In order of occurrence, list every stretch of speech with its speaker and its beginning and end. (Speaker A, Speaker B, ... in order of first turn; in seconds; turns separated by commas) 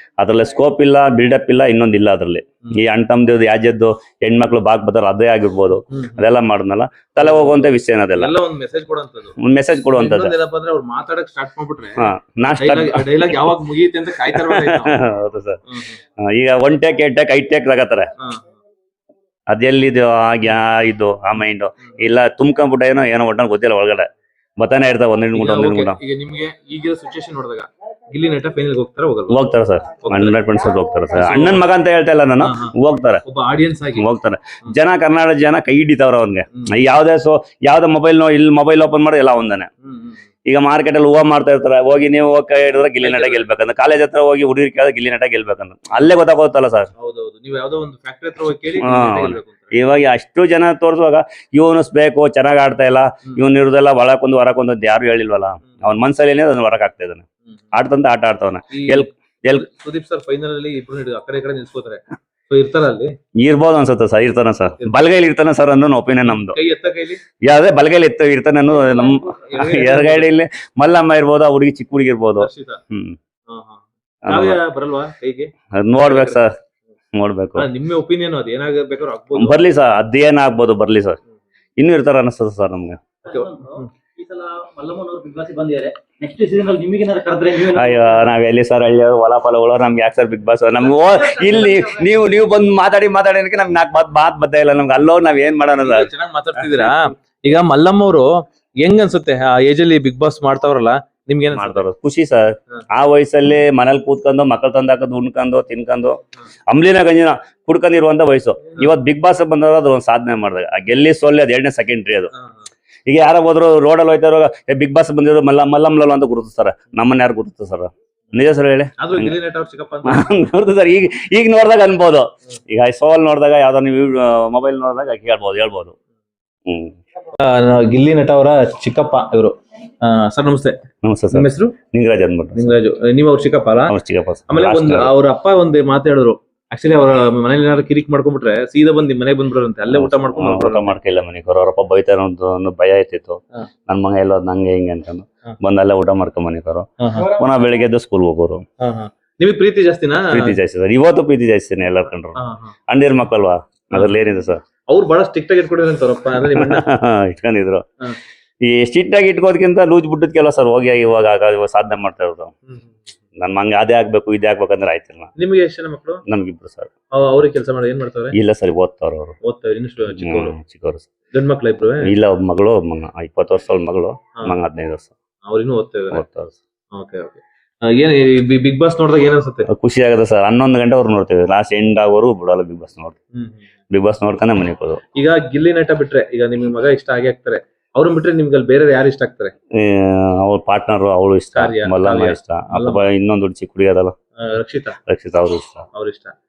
Speaker A: 0.2-8.3, Speaker B: 5.9-6.3, Speaker B: 7.2-9.4, Speaker A: 9.4-10.3, Speaker B: 9.9-15.0, Speaker A: 12.0-13.5, Speaker A: 14.3-15.6, Speaker B: 15.7-16.0, Speaker A: 16.2-18.1, Speaker B: 18.2-18.4, Speaker A: 19.5-24.1, Speaker A: 24.6-26.0, Speaker B: 25.3-29.4, Speaker A: 29.3-33.2, Speaker B: 30.0-30.5, Speaker B: 31.1-31.6, Speaker B: 32.4-32.7, Speaker B: 33.2-34.0, Speaker A: 34.0-39.7, Speaker B: 39.8-40.2, Speaker A: 40.5-46.9, Speaker B: 43.0-43.5, Speaker B: 47.0-49.8, Speaker A: 48.8-59.6, Speaker B: 58.7-63.1, Speaker A: 63.4-66.6, Speaker B: 66.2-67.2, Speaker A: 67.4-73.2, Speaker C: 68.7-69.4, Speaker B: 69.3-70.3, Speaker B: 72.4-72.8, Speaker B: 73.5-76.4, Speaker A: 74.3-74.6, Speaker A: 75.7-76.5, Speaker A: 77.1-77.7, Speaker B: 77.6-79.7, Speaker A: 79.4-81.2, Speaker A: 81.8-83.0, Speaker C: 83.2-88.3, Speaker B: 83.3-83.9, Speaker A: 87.7-96.1, Speaker C: 90.8-92.3, Speaker B: 95.8-101.8, Speaker A: 101.5-112.3, Speaker B: 112.3-112.7, Speaker A: 113.1-119.3, Speaker B: 119.0-120.4, Speaker A: 120.0-126.0, Speaker A: 126.7-127.0, Speaker B: 127.3-130.8, Speaker A: 131.0-132.8, Speaker B: 131.3-131.8, Speaker B: 132.6-134.0, Speaker A: 133.9-135.1, Speaker B: 134.5-141.0, Speaker A: 139.9-148.6, Speaker B: 147.0-147.4, Speaker B: 148.8-150.6, Speaker A: 150.3-152.4, Speaker B: 152.4-152.8, Speaker A: 152.9-154.6, Speaker B: 154.9-156.9, Speaker A: 156.6-157.8, Speaker A: 158.6-162.5, Speaker B: 162.7-163.0, Speaker A: 163.4-165.3, Speaker B: 165.4-166.2, Speaker A: 166.3-166.9, Speaker B: 167.2-168.4, Speaker A: 168.3-169.3, Speaker B: 169.4-170.6, Speaker A: 170.1-171.1, Speaker B: 171.3-172.1, Speaker A: 172.0-175.1, Speaker B: 175.4-176.2, Speaker A: 176.1-176.6, Speaker B: 176.9-179.7, Speaker A: 179.7-183.2, Speaker B: 183.3-183.6, Speaker A: 183.9-185.0, Speaker B: 185.2-189.5, Speaker A: 189.7-194.2, Speaker B: 191.6-193.1, Speaker B: 194.4-195.0, Speaker A: 195.1-195.8, Speaker B: 195.9-196.3